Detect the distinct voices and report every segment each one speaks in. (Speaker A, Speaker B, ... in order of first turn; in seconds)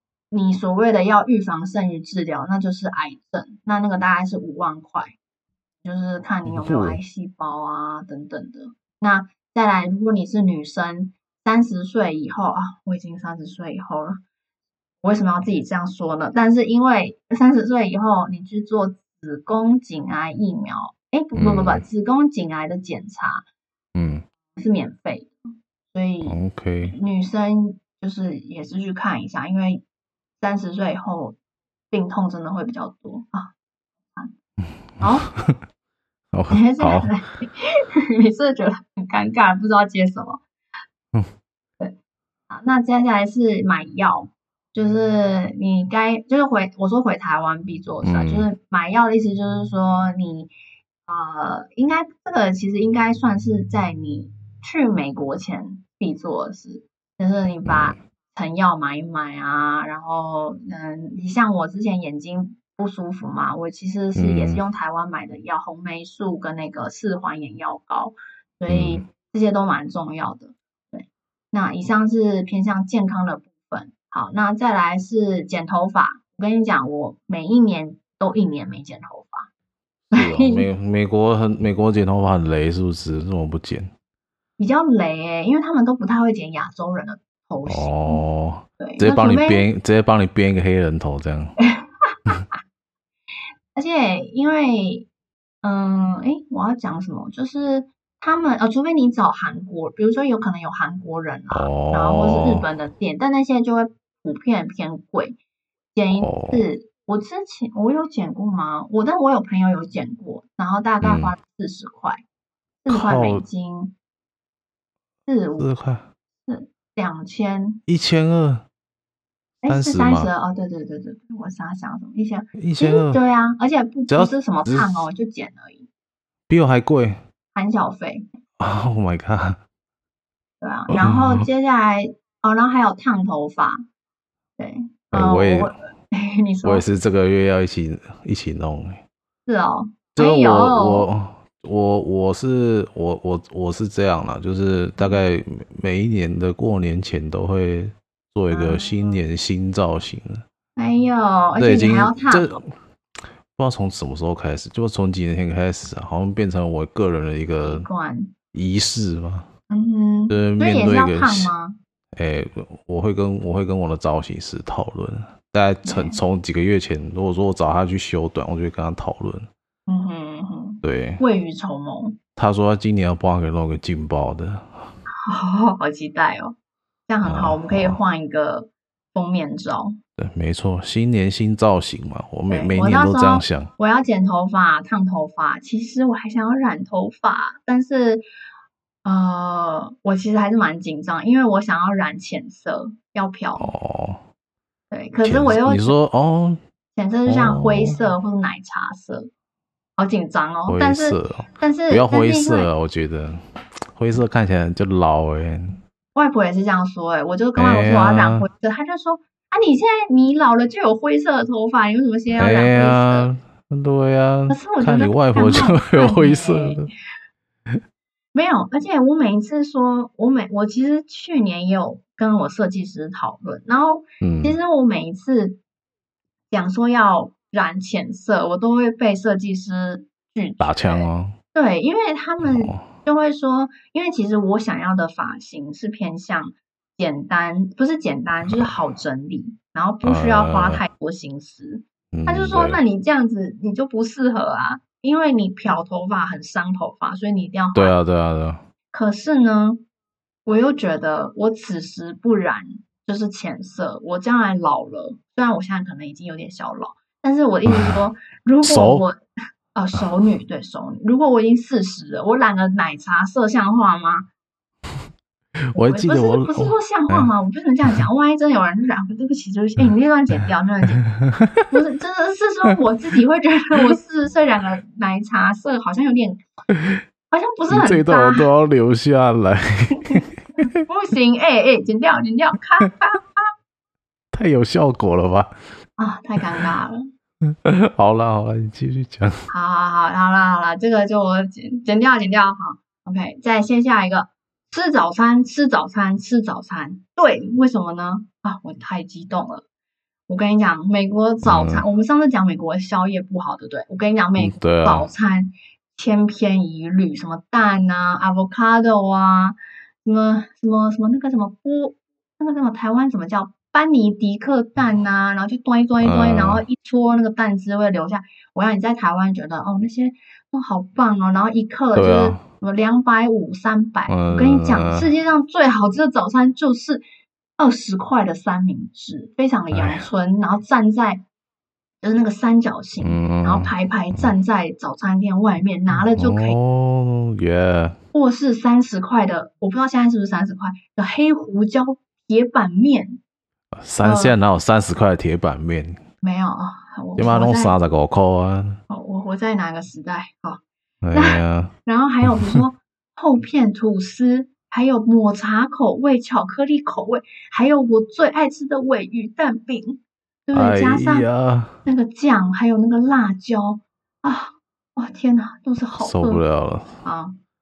Speaker A: 0.3-5.2, 5.8-14.2, 15.0-23.4, 24.6-25.3, 25.9-29.8, 30.4-31.4, 31.9-33.5, 35.0-35.3, 36.5-37.6, 38.2-40.4, 42.5-50.5, 51.1-79.5, 80.1-80.7, 84.6-88.2, 88.8-89.7, 91.6-92.2, 93.8-95.1, 95.6-105.4, 105.9-112.2, 112.8-114.0, 115.3-115.7, 116.5-117.8, 119.6-125.9, 127.5-128.3, 130.6-133.8, 134.6-136.8, 139.5-141.1, 148.5-149.2, 150.8-152.6, 157.6-158.3, 159.7-161.8, 165.8-166.2, 169.9-172.2, 175.3-176.6, 177.1-180.0, 182.5-188.2, 189.1-193.7, 194.9-196.0, 196.9-199.3, 200.0-202.7, 206.2-213.3, 214.5-216.8, 218.3-225.6, 226.5-248.0, 248.9-249.8, 250.5-259.2, 259.7-264.3, 265.8-271.1, 271.7-276.4, 277.3-278.5, 280.0-280.3, 280.9-283.5, 286.0-287.0, 289.5-299.6, 300.3-327.0, 327.6-331.2, 332.0-336.6, 338.1-343.2, 344.0-344.4, 346.2-347.8, 348.9-350.6, 351.1-361.3, 361.9-366.4, 367.0-367.4
Speaker B: 6.5-7.0, 21.4-21.9, 23.9-24.2, 26.3-26.9, 36.3-37.1, 48.0-48.5, 57.6-58.0, 64.2-64.6, 68.7-69.0, 80.1-83.9, 87.7-91.6, 101.5-102.7, 106.2-106.7, 111.0-111.3, 112.9-113.4, 115.6-116.1, 117.9-118.7, 119.7-120.3, 122.6-123.2, 124.1-125.1, 126.5-127.2, 128.6-129.6, 130.9-131.5, 135.1-135.7, 136.6-139.0, 140.2-150.4, 151.6-152.7, 153.5-157.9, 158.5-159.5, 160.3-161.5, 162.2-169.5, 170.8-171.2, 172.4-174.9, 177.2-178.0, 180.2-183.7, 193.6-194.2, 195.2-196.6, 197.3-198.1, 200.7-203.4, 203.9-205.8, 207.6-208.5, 212.4-216.9, 224.2-224.6, 230.6-231.4, 232.4-232.8, 240.0-240.8, 242.1-242.8, 247.8-248.6, 257.7-258.0, 258.6-259.0, 265.7-267.3, 271.2-271.7, 277.7-280.7, 284.3-285.5, 287.5-289.5, 301.4-301.9, 304.4-305.1, 316.0-316.6, 322.0-322.4, 324.1-325.1, 329.7-330.0, 333.0-334.3, 335.9-338.0, 343.7-346.0, 347.2-348.8, 351.0-351.7, 352.2-352.6, 360.5-361.8, 366.0-367.0